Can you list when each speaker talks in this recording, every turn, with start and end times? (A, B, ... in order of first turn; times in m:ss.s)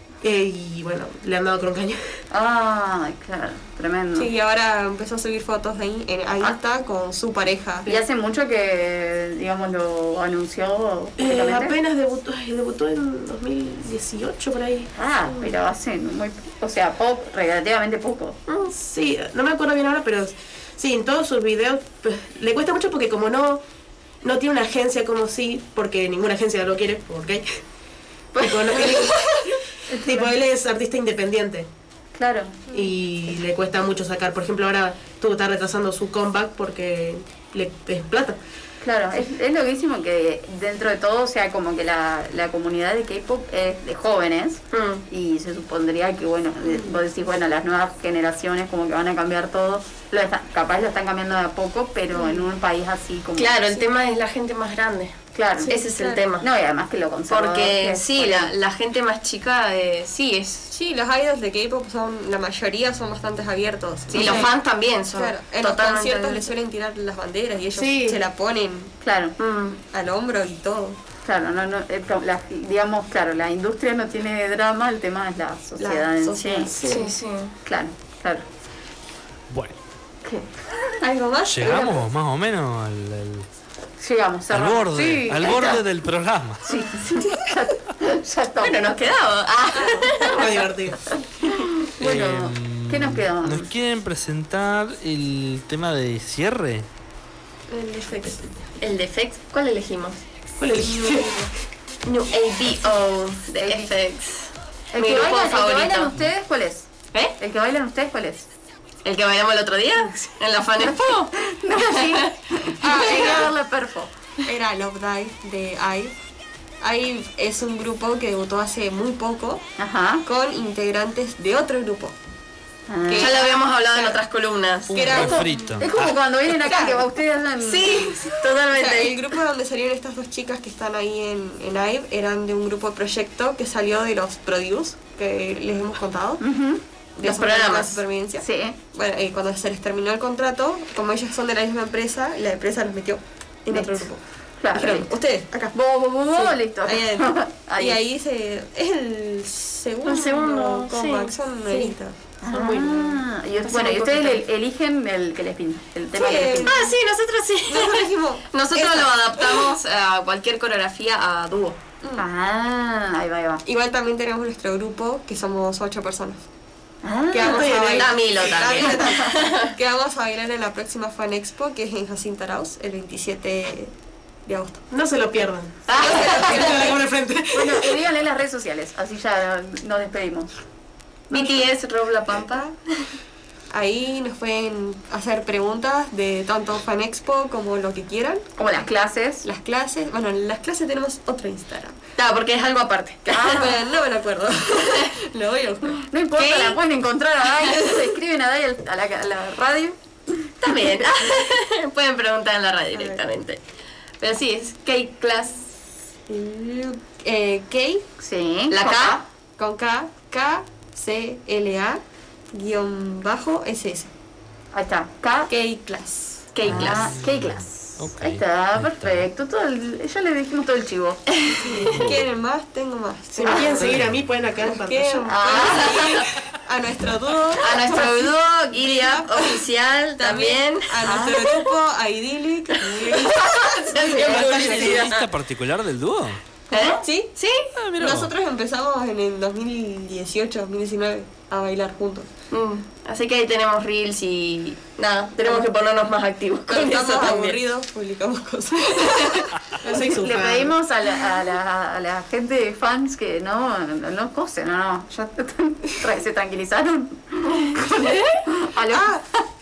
0:00.2-0:02.2 A
0:02.3-0:04.3 B
0:04.1-0:07.9 C
0:07.8-0:11.8 B
0:11.2-0:14.9 A
0:15.0-0:18.4 B
0:18.5-0:23.6 A
0:24.2-0:27.6 A
0:28.4-0:29.0 D
0:28.4-0:31.7 A
0:28.6-0:29.1 B
0:29.9-0:30.3 B
0:32.1-0:32.8 B
0:32.7-0:38.4 A
0:38.8-0:53.6 B
0:44.7-0:45.0 D
0:52.2-0:52.4 C
0:53.4-0:55.1 D
0:55.3-0:55.8 B
0:55.6-0:56.2 C
0:55.7-0:56.5 D
0:56.4-0:58.5 B
0:57.3-1:00.7 D
1:00.7-1:04.5 C
1:04.1-1:06.5 D
1:04.2-1:04.4 A
1:05.1-1:08.9 C
1:07.7-1:08.2 A
1:09.0-1:09.4 B
1:09.4-1:09.8 D
1:09.8-1:11.0 C
1:11.2-1:16.7 B
1:15.8-1:17.1 C
1:16.8-1:17.5 D
1:17.6-1:18.4 B
1:19.5-1:19.8 E
1:20.2-1:20.5 B
1:21.0-1:22.1 C
1:21.4-1:23.5 E
1:24.0-1:25.8 B
1:24.5-1:27.4 E
1:26.6-1:29.1 B
1:28.6-1:30.6 D
1:30.2-1:31.0 A
1:31.6-1:33.7 B
1:32.0-1:36.9 E
1:37.7-1:38.5 C
1:38.8-1:40.2 D
1:40.6-1:41.5 A
1:40.8-1:41.4 C
1:42.0-1:46.2 D
1:43.6-1:43.9 B
1:44.9-1:48.5 B
1:49.0-1:52.3 D
1:50.9-1:54.1 B
1:52.8-1:53.5 C
1:52.9-1:53.4 D
1:54.4-1:56.2 C
1:56.8-1:59.6 C
1:59.8-2:00.2 B
2:00.2-2:02.2 C
2:02.9-2:03.6 B
2:03.0-2:04.2 C
2:03.2-2:05.2 D
2:04.9-2:06.2 E
2:04.9-2:05.9 C
2:05.0-2:08.3 B
2:06.5-2:07.1 C
2:07.6-2:09.4 D
2:08.6-2:16.4 C
2:16.4-2:16.8 B
2:17.2-2:24.2 C
2:17.2-2:18.0 D
2:18.4-2:18.8 B
2:23.7-2:24.1 B
2:24.6-2:25.2 B
2:24.7-2:25.8 C
2:25.7-2:28.0 B
2:26.3-2:32.2 C
2:30.0-2:31.3 D
2:32.4-2:36.7 B
2:32.5-2:34.4 A
2:36.1-2:37.0 C
2:36.6-2:41.8 D
2:37.7-2:39.7 C
2:42.0-2:42.3 C
2:42.2-2:43.6 B
2:43.6-2:46.4 C
2:47.0-2:47.9 B
2:47.3-2:53.9 C
2:47.3-2:48.2 A
2:47.9-2:49.7 D
2:48.8-2:49.3 B
2:54.4-2:54.8 C
2:54.9-2:58.0 A
2:55.9-2:57.0 C
2:57.5-3:00.5 B
3:01.3-3:03.1 D
3:03.7-3:08.6 C
3:08.6-3:09.4 B
3:09.4-3:12.0 C
3:12.2-3:13.6 D
3:13.3-3:13.8 B
3:13.3-3:16.0 C
3:16.1-3:20.8 B
3:16.4-3:16.8 D
3:20.6-3:23.6 D
3:24.2-3:25.8 D
3:26.3-3:28.0 C
3:28.2-3:29.2 B
3:28.7-3:29.2 D
3:29.6-3:34.1 C
3:34.7-3:35.5 B
3:35.5-3:36.5 C
3:36.5-3:37.2 D
3:36.6-3:41.4 B
3:36.6-3:39.3 E
3:41.7-3:43.9 C
3:41.8-3:42.0 A
3:43.4-3:45.8 A
3:43.5-3:43.8 B
3:43.8-3:44.3 E
3:44.6-3:49.6 C
3:45.3-3:46.3 B
3:45.6-3:46.1 D
3:47.6-3:50.9 D
3:50.2-3:53.5 C
3:51.0-3:51.6 B
3:53.2-3:55.0 B
3:53.7-3:55.3 D
3:54.3-3:56.4 E
3:54.5-3:54.8 A
3:56.7-3:57.7 D
3:56.7-3:57.0 B
3:57.0-3:57.3 C
3:57.7-3:58.3 E
3:58.0-4:02.3 C
4:02.5-4:07.6 D
4:05.4-4:05.7 B
4:06.7-4:09.9 C
4:09.0-4:09.3 D
4:09.8-4:10.7 A
4:10.1-4:19.4 B
4:17.9-4:18.4 D
4:18.9-4:19.2 C